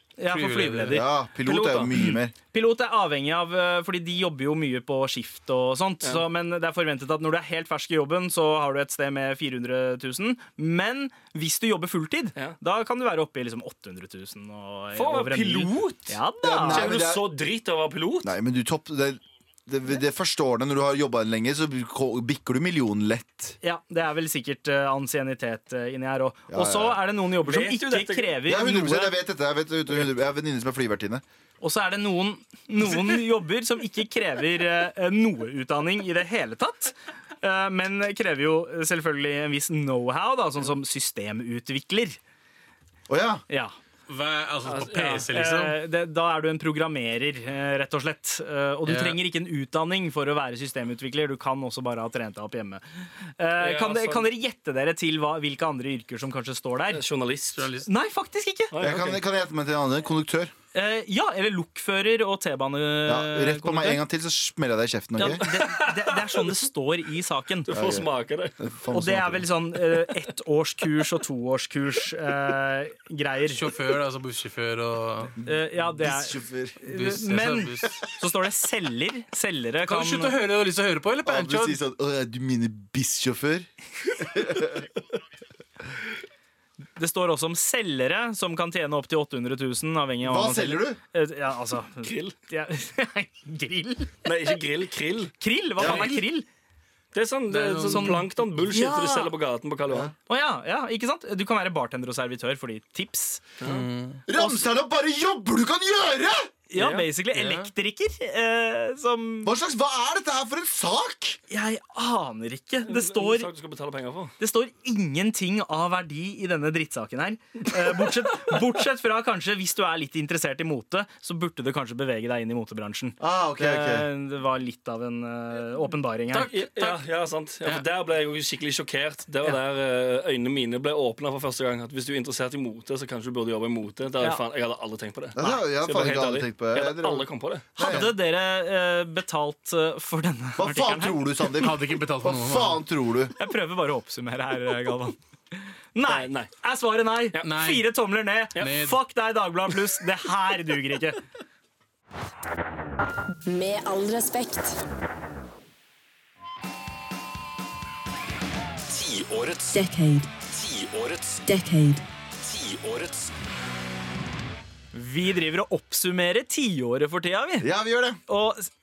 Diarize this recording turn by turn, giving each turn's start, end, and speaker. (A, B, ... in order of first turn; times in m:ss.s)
0:00.2-0:01.1 A
0:00.3-0:01.0 B
0:00.9-0:02.3 C
0:01.4-0:01.9 D
0:02.5-0:17.0 A
0:15.0-0:16.1 D
0:16.4-0:17.3 C
0:16.7-0:18.3 D
0:18.2-0:23.6 C
0:23.6-0:29.2 A
0:26.5-0:27.0 C
0:27.4-0:28.4 D
0:28.5-0:31.2 C
0:31.6-0:42.2 A
0:43.1-0:43.4 C
0:43.5-0:43.8 A
0:44.1-0:45.8 B
0:44.7-0:45.2 D
0:45.0-0:57.0 A
0:48.9-0:49.2 B
0:53.6-0:54.3 D
0:56.9-0:57.7 D
0:57.6-0:57.9 B
0:57.9-0:58.7 A
0:58.7-0:59.2 D
0:58.8-1:00.5 C
1:00.7-1:04.0 A
1:03.0-1:05.4 C
1:05.2-1:07.7 A
1:05.2-1:06.6 D
1:07.7-1:08.6 D
1:07.7-1:08.1 C
1:08.6-1:09.5 C
1:08.9-1:13.7 A
1:13.5-1:15.4 B
1:15.4-1:16.8 C
1:15.4-1:20.4 A
1:16.9-1:18.0 B
1:19.8-1:21.8 B
1:21.2-1:24.9 C
1:27.0-1:34.6 A
1:30.2-1:31.0 C
1:32.0-1:32.3 D
1:34.2-1:35.4 D
1:35.4-1:36.5 A
1:35.8-1:36.0 C
1:35.8-1:36.2 B
1:37.1-1:40.1 D
1:37.5-1:38.3 B
1:37.9-1:39.3 A
1:40.3-1:43.4 A
1:43.6-1:43.9 D
1:43.6-1:44.2 B
1:44.3-1:46.5 C
1:44.3-1:44.6 A
1:46.7-1:49.5 A
1:46.8-1:47.1 D
1:47.3-1:47.7 B
1:49.4-1:51.4 C
1:51.5-1:53.5 A
1:52.9-1:54.3 D
1:54.4-2:07.0 A
1:57.9-1:58.3 D
2:03.2-2:04.1 C
2:06.3-2:17.7 D
2:15.4-2:18.1 C
2:17.8-2:21.3 A
2:20.6-2:23.3 C
2:21.6-2:22.8 B
2:23.4-2:25.2 A
2:26.0-2:31.2 A
2:26.1-2:26.5 D
2:27.4-2:27.9 B
2:28.6-2:29.0 B
2:33.4-2:34.8 E
2:38.9-2:39.8 F
2:39.7-2:40.3 E
2:40.5-2:41.4 F
2:41.4-2:42.0 E
2:42.4-2:43.3 F
2:44.9-2:47.7 A
2:47.6-2:48.2 C
2:48.3-2:48.7 A